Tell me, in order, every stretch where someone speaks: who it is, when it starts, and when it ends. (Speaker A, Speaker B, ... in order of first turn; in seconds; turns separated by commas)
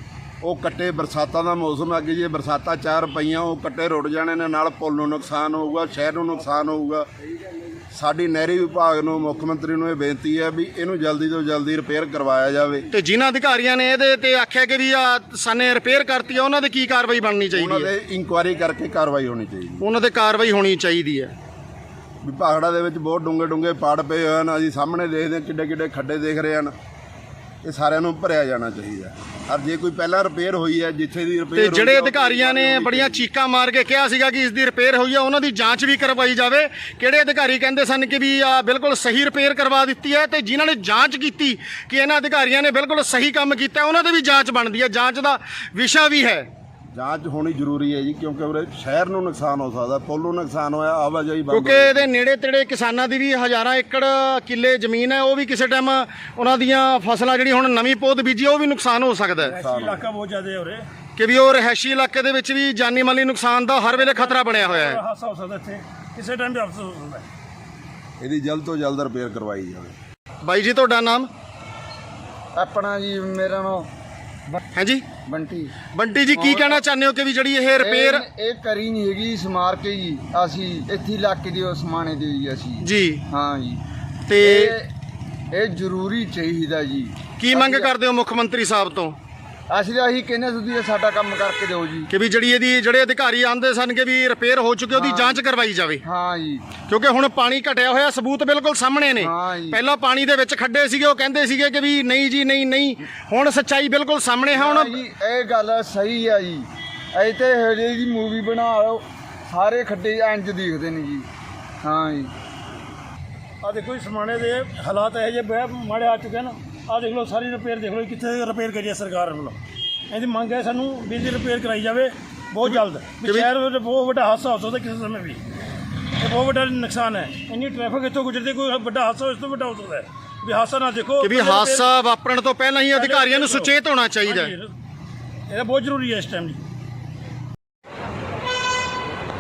Speaker A: 0.4-7.1, Speaker A: 7.9-12.9, Speaker B: 12.9-17.9, Speaker A: 17.5-19.9, Speaker B: 19.8-21.3, Speaker A: 22.2-26.7, Speaker A: 27.6-33.3, Speaker B: 31.6-46.5, Speaker A: 46.9-52.0, Speaker B: 51.5-59.6, Speaker C: 59.4-60.9, Speaker A: 59.6-60.0, Speaker B: 61.2-65.0, Speaker C: 63.9-67.3, Speaker A: 68.2-70.0, Speaker B: 70.4-71.3, Speaker D: 72.5-73.9, Speaker B: 74.8-75.0, Speaker D: 75.3-75.7, Speaker B: 75.9-78.3, Speaker D: 76.3-76.8, Speaker D: 77.8-83.8, Speaker B: 82.8-83.2, Speaker B: 84.3-84.8, Speaker D: 84.4-84.9, Speaker D: 85.5-87.9, Speaker B: 87.4-89.2, Speaker D: 89.7-92.1, Speaker B: 92.1-96.0, Speaker D: 94.9-95.4, Speaker D: 96.0-96.7, Speaker B: 96.9-105.0, Speaker D: 99.2-99.8, Speaker D: 104.5-111.3, Speaker D: 111.8-112.3, Speaker C: 113.6-119.6, Speaker C: 120.1-125.4, Speaker B: 122.7-123.5, Speaker C: 126.2-131.9, Speaker B: 131.2-134.6, Speaker C: 132.9-134.7, Speaker C: 135.5-136.6